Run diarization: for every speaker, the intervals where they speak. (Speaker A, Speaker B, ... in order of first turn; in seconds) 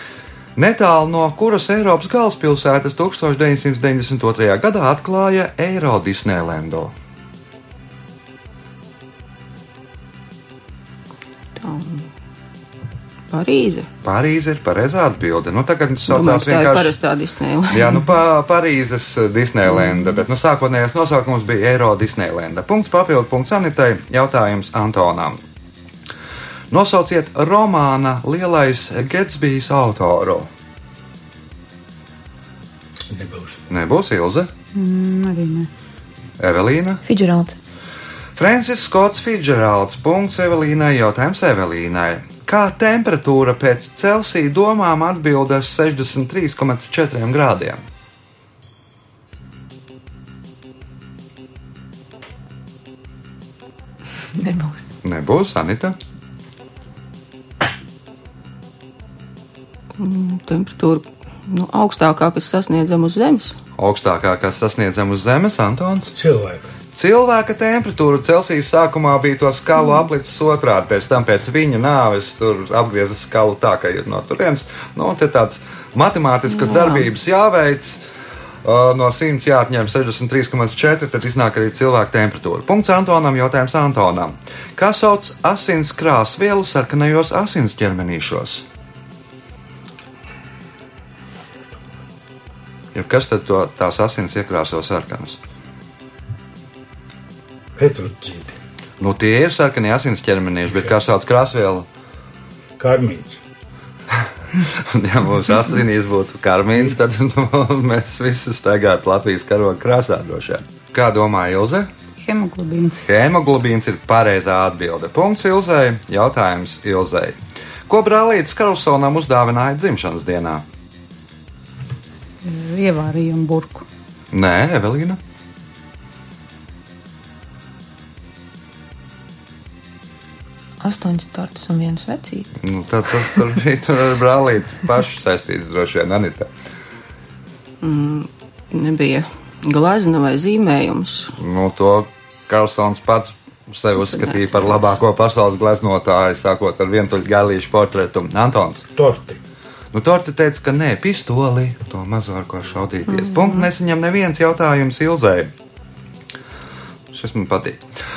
Speaker A: 0.6-6.9, 14.0-17.0, 17.7-25.4, 26.7-30.5, 33.7-34.5, 36.4-37.0, 38.4-47.8, 55.0-56.0, 63.8-66.2, 66.9-78.0, 78.6-88.7, 93.0-95.4, 99.0-101.9, 104.7-111.9, 113.0-117.4, 117.9-120.6, 124.3-125.2, 132.6-136.5, 141.4-148.9, 149.9-155.5, 157.1-157.8
Speaker B: 11.6-12.1, 13.3-13.9, 16.1-18.1, 60.0-63.6, 76.5-77.1, 137.8-141.3, 144.1-144.8, 153.2-153.7
Speaker C: 33.1-33.6, 66.2-66.7, 97.8-98.5, 102.8-103.4, 148.9-149.4
Speaker D: 34.7-35.7, 112.2-113.0, 122.4-123.9
Speaker E: 37.0-37.6, 54.4-54.8, 130.8-132.5